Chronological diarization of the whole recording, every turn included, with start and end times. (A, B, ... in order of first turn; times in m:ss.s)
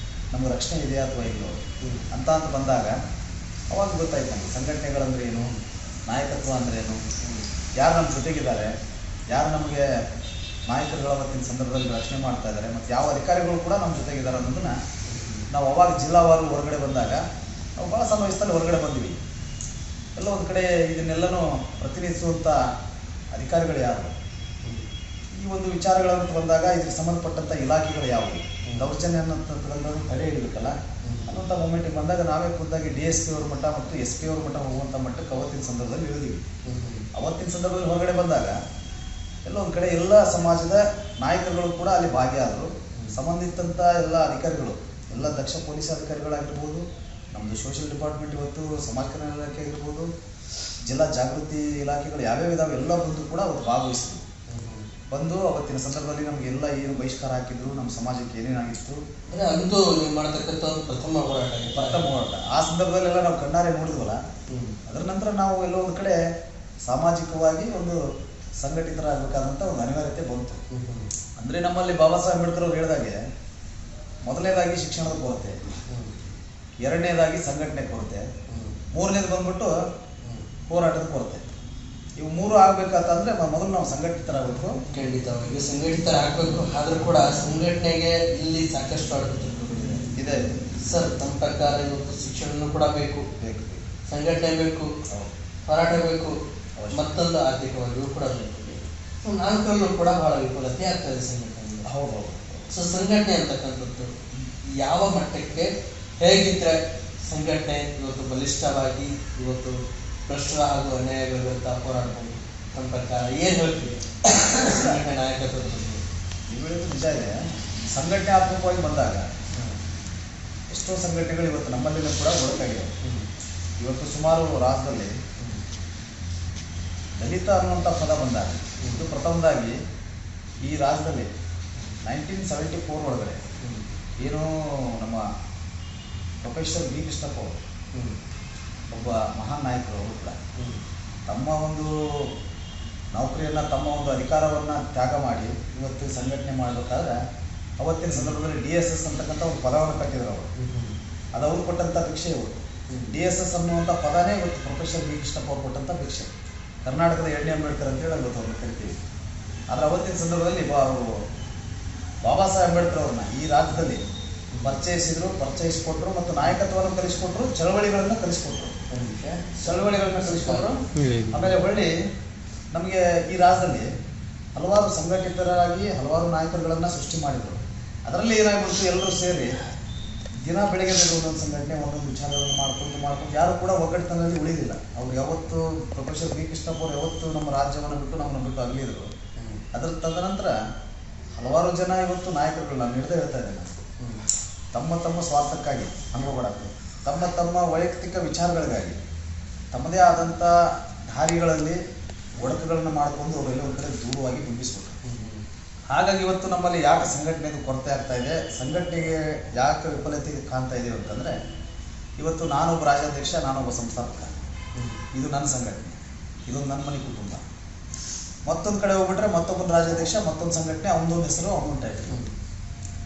0:00.3-0:01.6 A
0:02.1-0:03.0 A
0:03.7-0:07.0 A
0:05.3-0:05.6 B
0:07.8-0:08.7 A
0:09.3-0:09.9 A
0:10.7-0:14.8 A
0:15.1-0:15.4 B
0:15.5-0:17.2 A
0:17.8-0:19.2 A
0:20.2-0:22.6 A
0:23.3-0:24.1 A
0:25.3-0:36.4 A
0:31.0-0:31.4 B
0:36.6-0:37.1 B
0:37.1-0:38.6 A
0:39.4-0:50.1 A
0:50.8-0:54.2 A
0:54.5-0:54.9 B
0:55.1-0:59.0 A
0:59.3-1:02.1 B
1:01.7-1:04.2 A
1:04.5-1:04.8 B
1:04.9-1:06.2 A
1:06.9-1:08.0 A
1:08.6-1:10.6 A
1:10.7-1:11.1 B
1:11.4-1:13.2 A
1:14.2-1:15.6 A
1:15.9-1:16.2 B
1:16.8-1:18.2 A
1:18.5-1:18.8 B
1:18.9-1:19.7 A
1:20.7-1:21.4 A
1:22.2-1:24.8 A
1:24.9-1:30.0 B
1:30.2-1:30.6 A
1:30.8-1:33.3 B
1:33.4-1:33.8 A
1:34.1-1:34.9 B
1:35.7-1:36.4 B
1:36.8-1:37.1 A
1:36.9-1:41.8 B
1:41.8-1:42.7 A
1:42.7-1:44.1 B
1:44.6-1:56.0 B
1:54.5-1:55.0 A
1:56.5-1:57.4 A
1:57.9-1:59.2 A
2:00.7-2:02.9 A
2:03.8-2:05.1 A
2:07.2-2:09.8 A
2:08.8-2:09.1 B
2:10.6-2:11.3 A
2:12.0-2:13.4 A
2:14.2-2:15.2 A
2:16.4-2:17.5 A
2:18.9-2:20.4 A
2:20.6-2:20.8 B
2:21.3-2:22.3 A
2:23.1-2:27.2 A
2:27.8-2:30.5 A
2:28.1-2:28.4 B
2:30.6-2:31.0 B
2:31.3-2:32.6 A
2:33.1-2:36.3 A
2:36.8-2:38.9 A
2:39.7-2:41.1 A
2:42.2-2:44.0 A
2:44.5-2:44.8 B
2:44.6-2:48.8 A
2:48.9-2:51.5 B
2:49.6-2:51.9 A
2:52.7-2:53.9 A
2:54.6-2:59.6 A
3:00.4-3:09.1 A
3:09.4-3:09.6 B
3:09.7-3:10.5 A
3:11.4-3:13.7 A
3:14.7-3:19.0 A
3:19.7-3:20.5 A
3:21.1-3:21.8 A
3:22.4-3:25.0 A
3:25.0-3:25.4 B
3:25.9-3:31.3 A
3:32.2-3:34.3 A
3:35.1-3:37.4 A
3:38.5-3:42.1 A